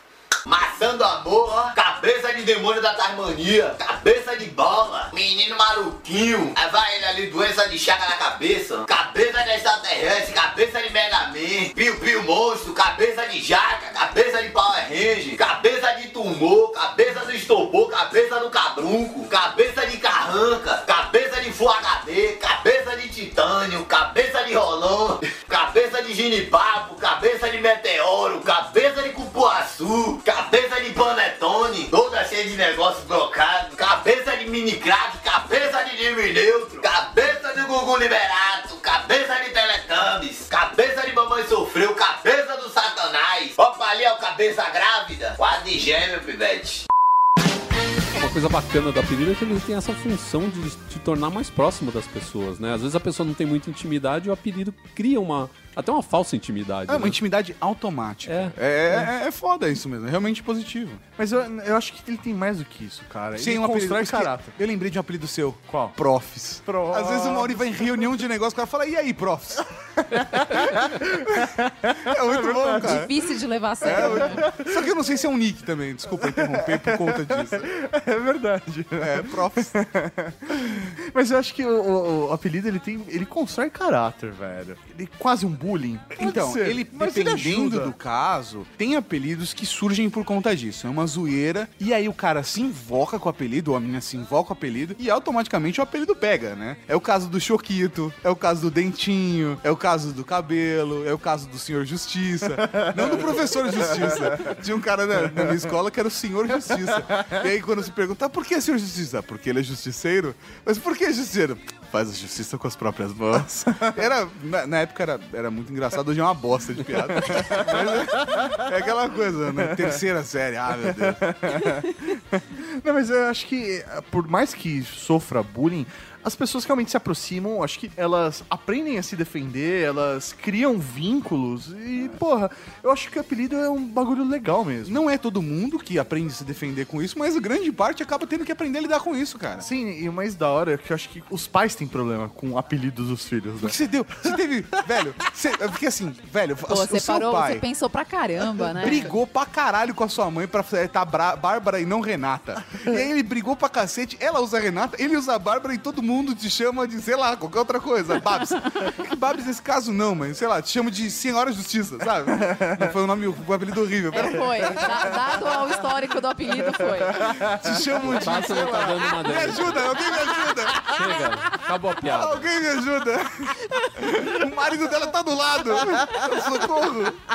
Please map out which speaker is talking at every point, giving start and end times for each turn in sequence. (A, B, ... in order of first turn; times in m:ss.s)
0:00.4-0:46.8 A
0:48.1-0:57.2 B
0:56.9-1:01.0 C
0:58.2-0:59.0 B
1:01.2-1:04.5 D
1:03.4-1:09.7 C
1:05.7-1:05.9 D
1:06.6-1:08.1 D
1:10.0-1:13.1 D
1:10.2-1:10.8 B
1:11.2-1:13.1 C
1:12.8-1:14.4 E
1:13.8-1:14.9 D
1:13.8-1:17.7 C
1:16.1-1:27.9 D
1:19.0-1:19.7 C
1:26.2-2:01.2 C
1:42.6-1:44.5 D
1:45.2-1:45.7 D
1:46.6-1:47.3 D
1:53.6-1:54.1 D
1:57.1-1:58.6 D
1:59.6-2:00.0 D
2:00.7-2:15.0 D
2:14.8-2:19.7 C
2:19.6-2:24.4 D
2:23.6-2:27.6 C
2:26.7-2:29.1 E
2:28.8-2:45.6 C
2:42.3-2:42.9 D
2:44.1-2:47.3 E
2:44.6-2:45.1 D
2:47.0-2:48.2 D
2:47.2-2:50.9 C
2:48.0-2:50.1 B
2:50.8-2:52.5 B
2:52.0-2:57.2 C